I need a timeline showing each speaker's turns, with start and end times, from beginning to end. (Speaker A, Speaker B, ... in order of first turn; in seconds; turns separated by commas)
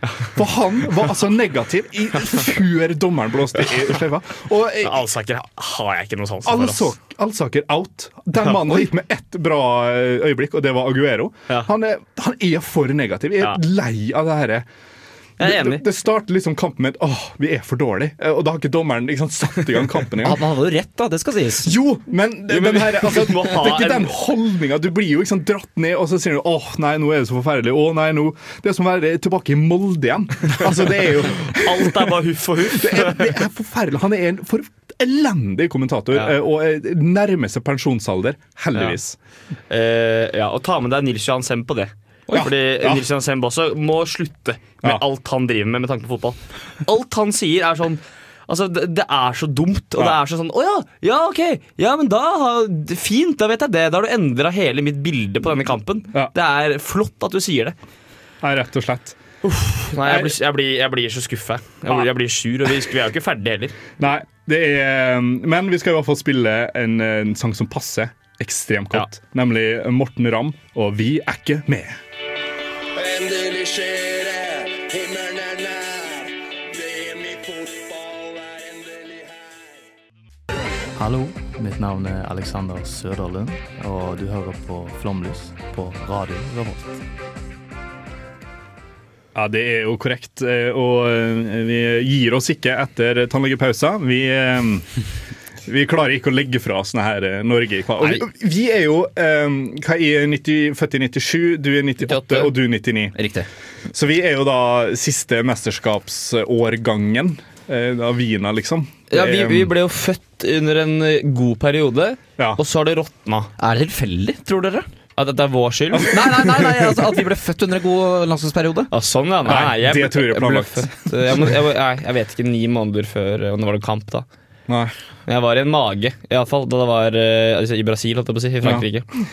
Speaker A: 0.3-5.0, Speaker B: 4.8-6.9, Speaker A: 6.4-14.7, Speaker B: 8.4-8.8, Speaker B: 15.4-15.8, Speaker A: 15.4-20.4, Speaker C: 20.2-21.7, Speaker A: 21.6-32.1, Speaker B: 22.5-24.1, Speaker B: 31.3-33.3, Speaker A: 32.6-39.2, Speaker B: 39.7-57.8, Speaker A: 42.3-43.0, Speaker A: 58.4-59.2, Speaker B: 59.4-63.8, Speaker A: 60.0-60.3, Speaker A: 64.0-72.0, Speaker D: 73.0-76.2, Speaker D: 76.8-79.4, Speaker E: 81.0-87.0, Speaker A: 89.3-94.9, Speaker A: 95.7-103.2, Speaker B: 102.0-102.5, Speaker C: 103.1-103.5, Speaker A: 103.9-109.7, Speaker B: 109.1-113.5, Speaker C: 113.6-114.9, Speaker B: 115.2-116.2, Speaker A: 115.9-116.9, Speaker C: 116.1-118.9, Speaker B: 118.9-124.2, Speaker A: 119.5-121.3, Speaker A: 124.7-124.9, Speaker B: 125.3-129.1